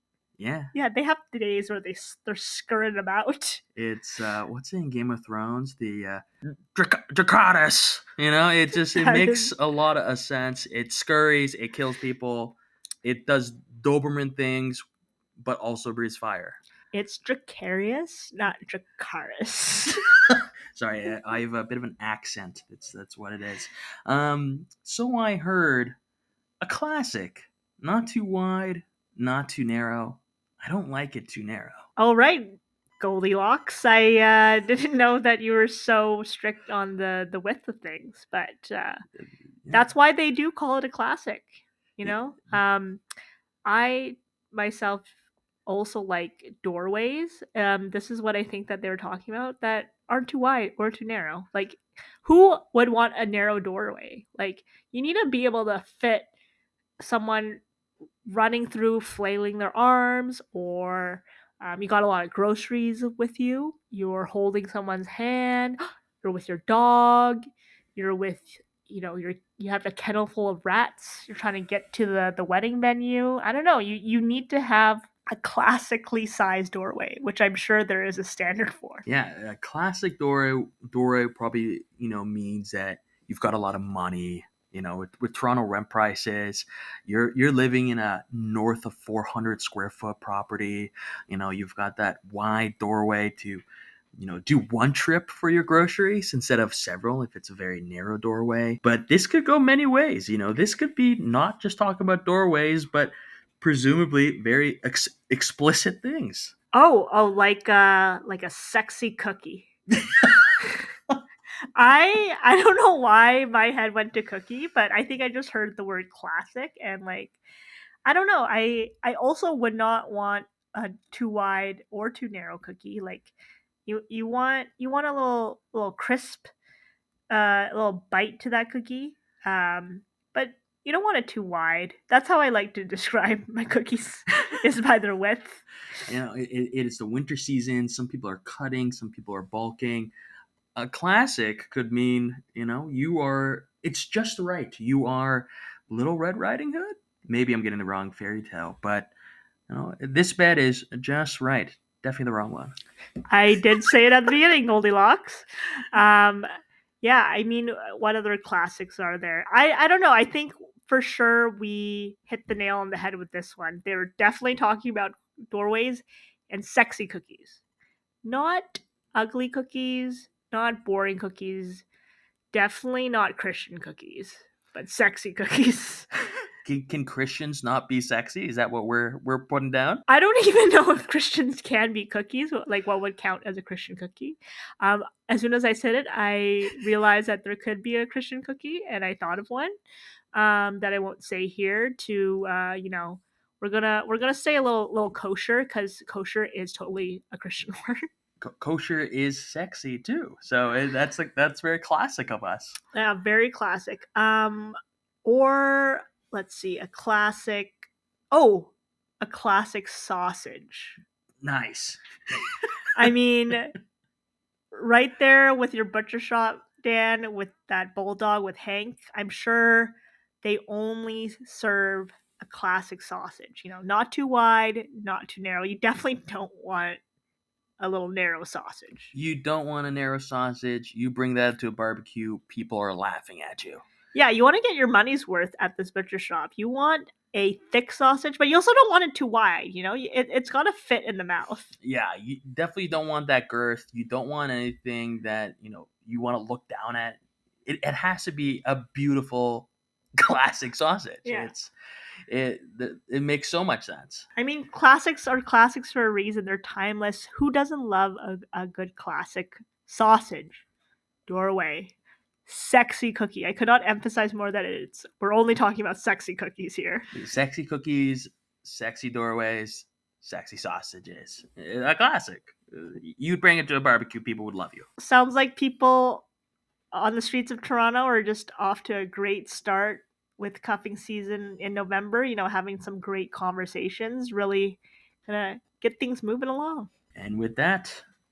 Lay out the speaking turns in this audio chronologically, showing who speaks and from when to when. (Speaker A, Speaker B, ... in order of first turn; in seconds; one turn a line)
Speaker A: 0.4-0.7
Speaker B: 0.7-3.6
Speaker A: 3.8-14.8
Speaker B: 8.8-9.5
Speaker A: 15.4-16.6
Speaker B: 16.9-20.0
Speaker A: 20.3-25.9
Speaker A: 26.6-31.9
Speaker B: 32.0-39.0
Speaker A: 39.6-39.9
Speaker B: 39.7-43.0
Speaker B: 43.6-45.1
Speaker B: 45.6-56.3
Speaker B: 57.0-57.6
Speaker B: 58.3-67.4
Speaker B: 68.0-79.1
Speaker A: 79.0-93.6
Speaker A: 94.2-106.5
Speaker B: 106.7-109.7
Speaker A: 110.2-110.4
Speaker B: 111.8-117.4
Speaker B: 118.0-123.3
Speaker B: 123.9-126.5
Speaker B: 127.3-135.6
Speaker A: 136.1-140.1
Speaker A: 140.8-149.1
Speaker A: 149.7-152.8
Speaker B: 153.3-156.5
Speaker B: 157.0-167.6
Speaker B: 168.2-171.9
Speaker B: 172.5-176.1
Speaker A: 176.6-180.0
Speaker B: 180.1-189.8
Speaker B: 190.3-198.1
Speaker A: 198.4-202.8
Speaker B: 202.9-211.0
Speaker A: 211.4-212.6
Speaker B: 212.9-213.8
Speaker B: 214.7-227.0
Speaker B: 227.8-229.1
Speaker A: 229.1-233.8
Speaker B: 234.1-241.7
Speaker A: 241.8-251.7
Speaker B: 251.2-251.5
Speaker A: 252.3-254.2
Speaker B: 254.4-260.6
Speaker B: 261.3-261.9
Speaker B: 262.5-267.1
Speaker A: 267.1-274.9
Speaker B: 275.0-276.3
Speaker B: 276.9-286.9
Speaker A: 287.1-288.1